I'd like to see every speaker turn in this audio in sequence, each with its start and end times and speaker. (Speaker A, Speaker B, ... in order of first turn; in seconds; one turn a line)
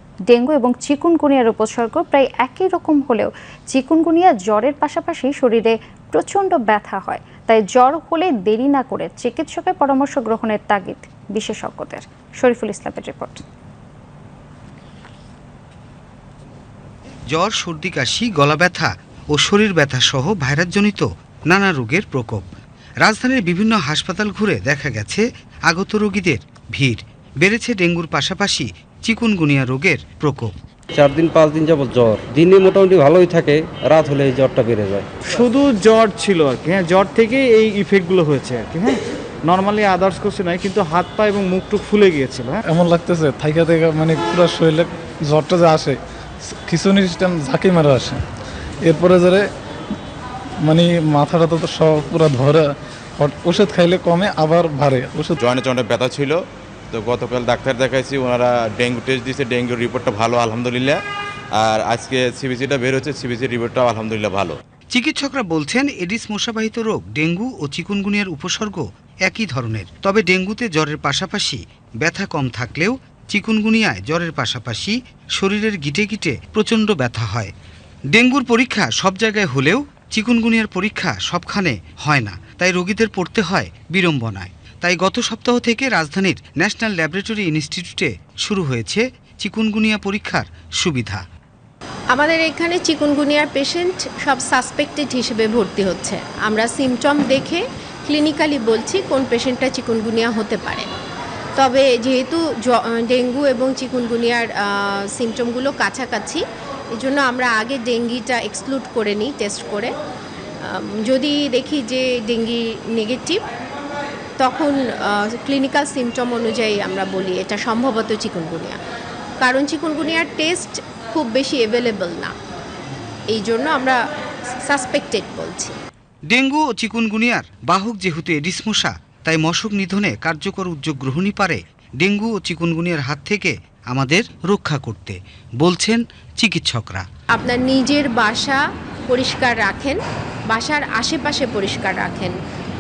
Speaker A: 0.3-13.4
Speaker B: 17.3-22.4
Speaker B: 23.0-30.5
Speaker C: 30.9-35.1
Speaker D: 35.3-42.6
Speaker E: 42.7-46.0
Speaker E: 46.7-48.2
Speaker E: 48.9-49.5
Speaker E: 50.7-52.7
Speaker E: 53.2-55.4
Speaker F: 55.4-61.0
Speaker F: 61.5-64.6
Speaker B: 64.9-77.5
Speaker B: 78.1-91.2
Speaker G: 92.1-100.9
Speaker G: 101.6-106.4
Speaker G: 107.0-109.9
Speaker G: 110.7-113.4
Speaker G: 114.4-118.8
Speaker G: 119.4-122.3
Speaker G: 123.3-124.0
Speaker G: 124.7-125.7
Speaker B: 126.3-137.1
Speaker G: 137.3-142.4